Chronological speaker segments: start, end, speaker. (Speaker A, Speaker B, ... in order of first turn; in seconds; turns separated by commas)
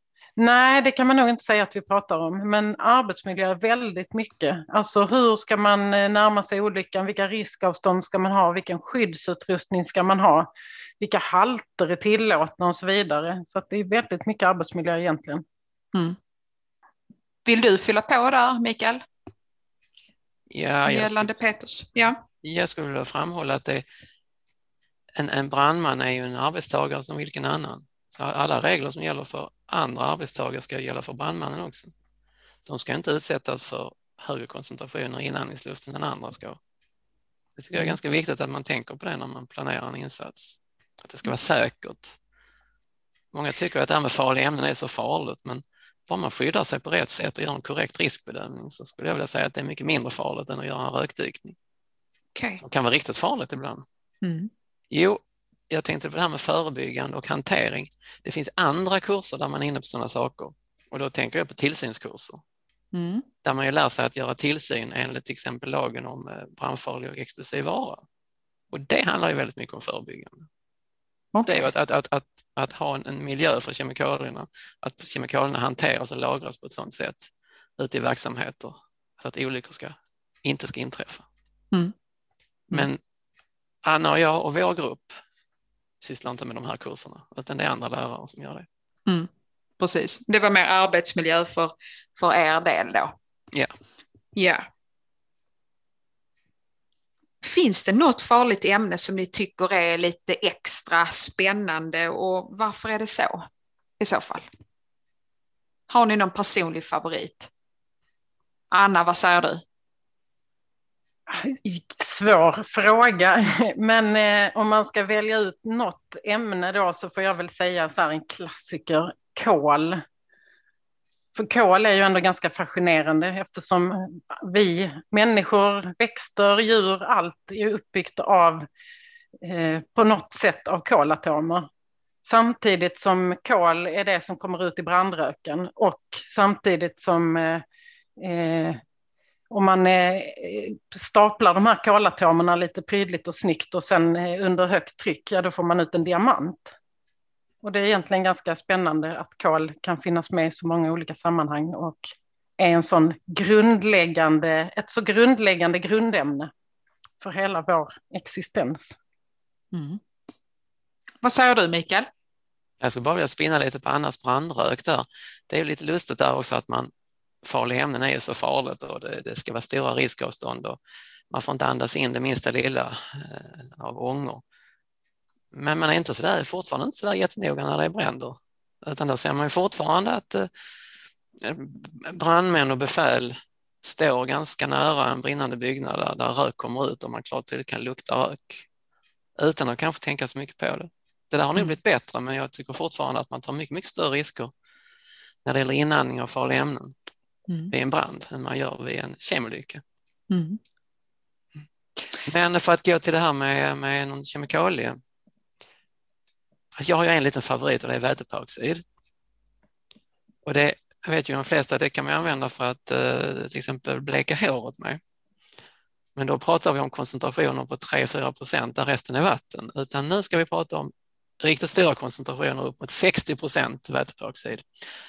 Speaker A: 0.4-15.4, Speaker B: 17.4-19.0, Speaker C: 20.5-21.4, Speaker B: 20.9-22.2, Speaker C: 22.3-23.8, Speaker C: 25.1-31.9, Speaker C: 32.6-36.6, Speaker C: 37.6-42.2, Speaker B: 37.7-38.0, Speaker C: 43.3-51.5, Speaker B: 52.3-52.6, Speaker C: 52.6-53.8, Speaker B: 54.2-54.5, Speaker C: 54.9-62.4, Speaker B: 62.9-63.2, Speaker C: 63.4-68.0, Speaker C: 68.7-70.5, Speaker B: 71.3-71.7, Speaker C: 71.5-81.2, Speaker C: 82.7-83.0, Speaker C: 83.8-85.2, Speaker C: 86.0-88.7, Speaker B: 89.8-93.1, Speaker B: 94.3-94.7, Speaker B: 97.4-103.5, Speaker B: 104.0-104.5, Speaker B: 105.9-107.5, Speaker B: 108.7-109.6, Speaker A: 111.3-120.0, Speaker A: 121.3-128.7, Speaker A: 129.4-131.7, Speaker A: 132.2-137.6, Speaker A: 138.2-138.8, Speaker A: 139.5-146.7, Speaker A: 147.6-156.5, Speaker A: 157.2-158.9, Speaker B: 159.7-160.0, Speaker B: 161.2-162.1, Speaker C: 162.8-166.9, Speaker C: 167.4-174.4, Speaker C: 175.5-180.5, Speaker C: 181.4-188.6, Speaker C: 189.4-194.5, Speaker C: 195.4-196.9, Speaker C: 197.7-199.8, Speaker B: 200.3-200.6, Speaker C: 202.2-205.0, Speaker C: 206.8-208.8, Speaker C: 210.4-215.0, Speaker C: 216.2-224.8